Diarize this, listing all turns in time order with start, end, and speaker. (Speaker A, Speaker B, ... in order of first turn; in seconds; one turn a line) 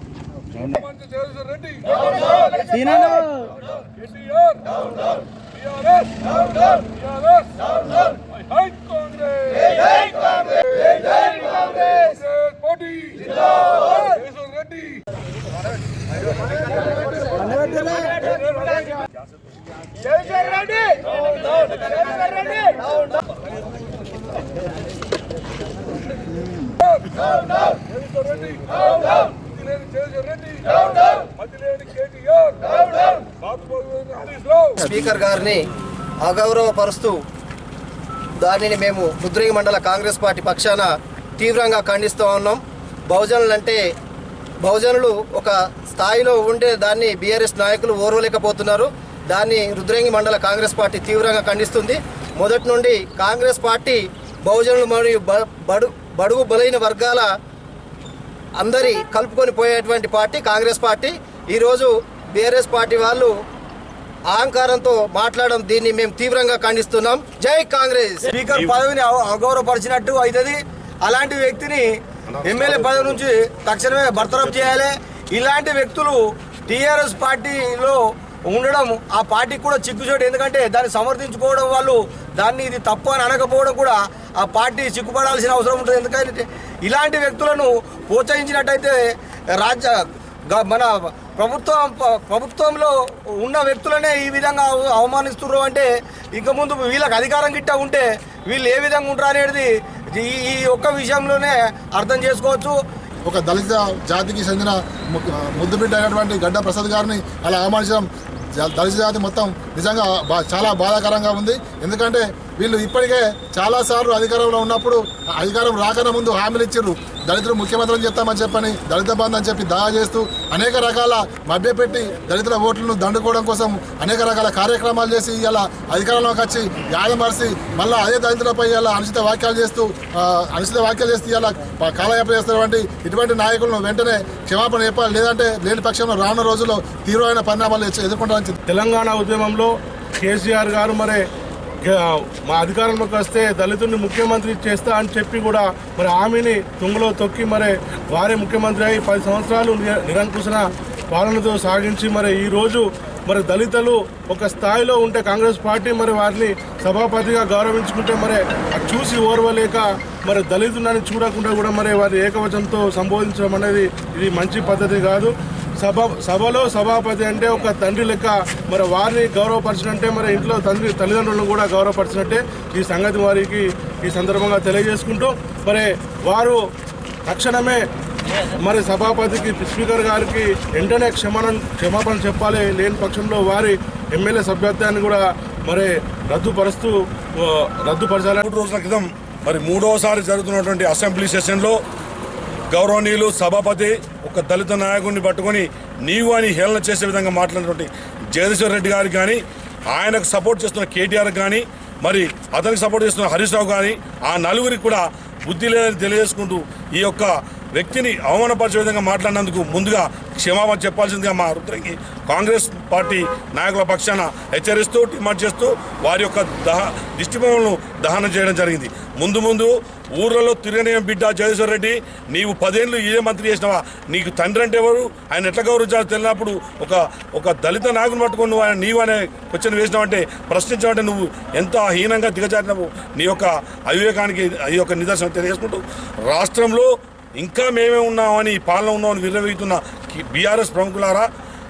Speaker A: 0.8-3.2
Speaker A: 4.0-4.8
Speaker A: 5.7-6.2
Speaker A: 6.7-7.5
Speaker A: 8.5-8.9
Speaker A: 12.2-13.2
Speaker A: 14.2-14.8
Speaker B: 20.2-20.5
Speaker C: 28.0-28.8
Speaker C: 29.6-30.8
Speaker C: 31.4-34.8
Speaker D: 34.8-35.6
Speaker D: 36.2-37.2
Speaker D: 38.4-43.8
Speaker D: 44.6-57.3
Speaker D: 58.6-63.3
Speaker D: 64.3-68.3
Speaker B: 68.3-71.8
Speaker C: 72.3-73.2
Speaker B: 72.4-89.0
Speaker C: 74.2-74.7
Speaker B: 89.6-102.7
Speaker E: 103.2-138.6
Speaker A: 138.7-141.2
Speaker A: 141.8-176.6
Speaker A: 177.2-177.9
Speaker A: 178.5-188.4
Speaker C: 188.4-191.8
Speaker C: 192.7-241.3